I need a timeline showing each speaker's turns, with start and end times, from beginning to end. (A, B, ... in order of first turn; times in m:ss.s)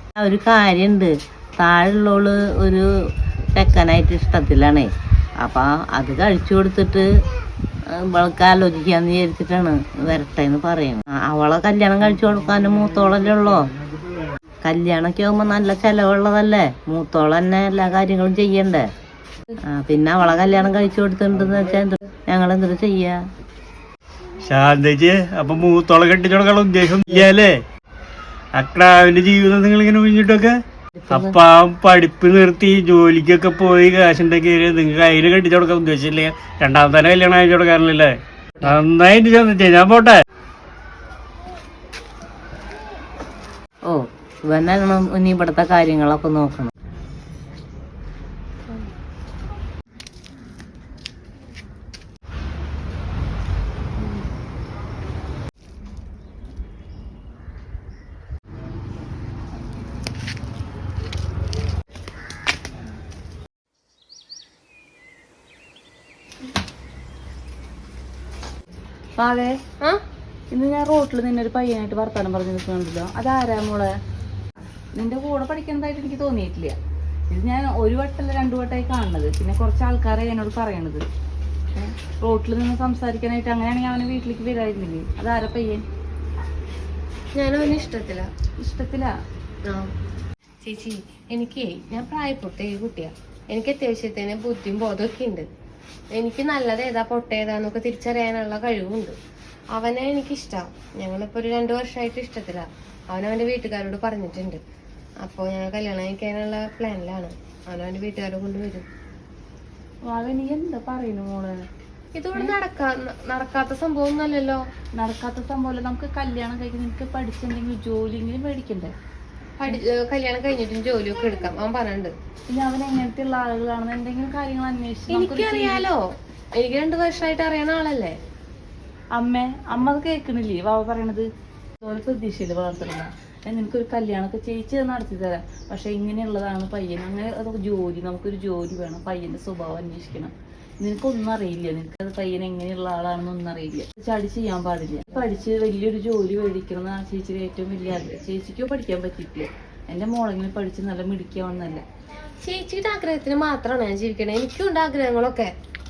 0:00.2-0:02.9 A
0:03.6-0:07.1 A
0:07.9-0:13.7 A
0:14.6-0:18.9 A
0:19.6-0:23.2 A
0:24.4-0:27.6 B
0:28.6-0:30.5 B
0:31.0-0:31.4 A
0:31.1-0:40.2 B
0:43.9-0:46.7 A
1:09.2-1:09.6 C
1:10.5-1:13.9 C
1:15.0-1:16.8 C
1:17.3-1:21.0 C
1:21.8-1:25.8 C
1:27.4-1:28.3 D
1:28.6-1:29.1 C
1:30.6-1:35.5 D
1:36.2-1:39.2 D
1:39.8-1:44.6 D
1:45.2-1:48.9 D
1:50.1-1:51.6 C
1:52.2-1:54.6 D
1:55.0-1:58.9 C
1:59.6-2:02.1 D
2:02.5-2:05.8 C
2:05.1-2:06.0 D
2:06.6-2:08.2 D
2:09.1-2:11.3 C
2:11.8-2:31.8 C
2:32.4-2:35.5 D